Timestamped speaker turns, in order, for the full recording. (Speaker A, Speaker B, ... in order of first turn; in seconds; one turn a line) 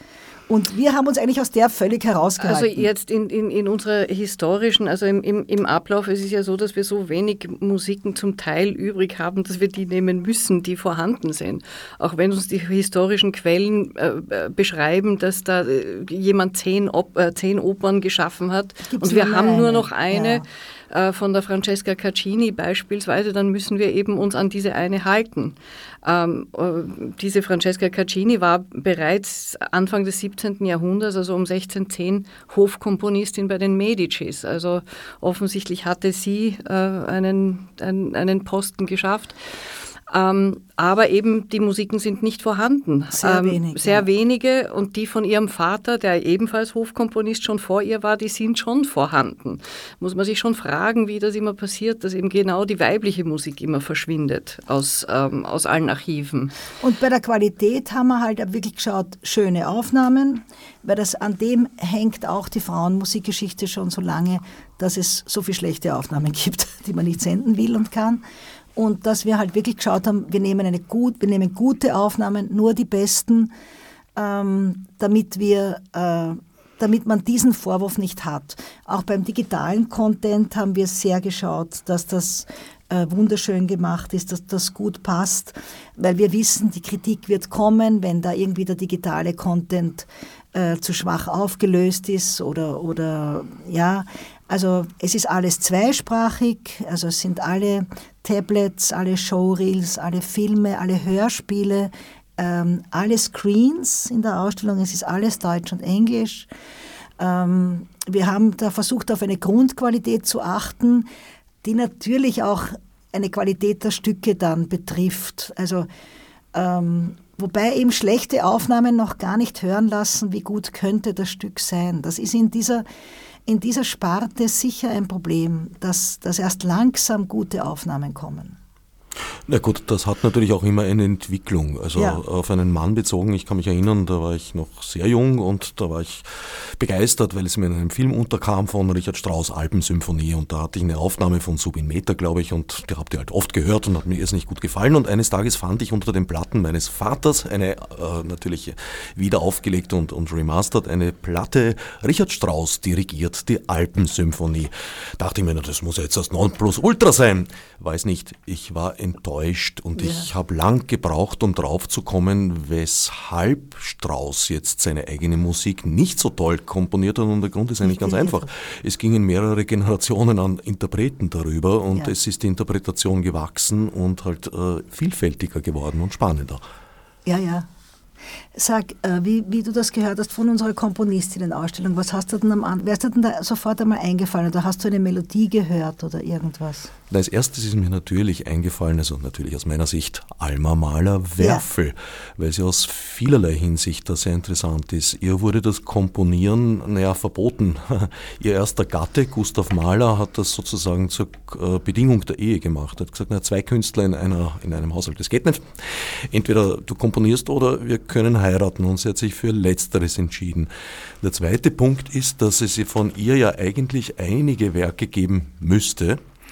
Speaker A: 0.5-2.9
Speaker B: 2.4-39.4
Speaker A: 18.9-20.4
Speaker B: 40.1-56.5
Speaker A: 43.1-44.0
Speaker A: 56.8-68.2
Speaker A: 68.8-73.5
Speaker A: 74.2-106.5
Speaker A: 107.2-111.1
Speaker A: 111.6-115.9
Speaker A: 116.5-122.8
Speaker A: 123.5-128.6
Speaker C: 129.5-176.6
Speaker A: 131.9-132.2
Speaker A: 160.0-160.3
Speaker A: 167.8-168.5
Speaker A: 177.2-177.7
Speaker A: 178.5-186.9
Speaker C: 187.1-216.2
Speaker A: 191.4-191.6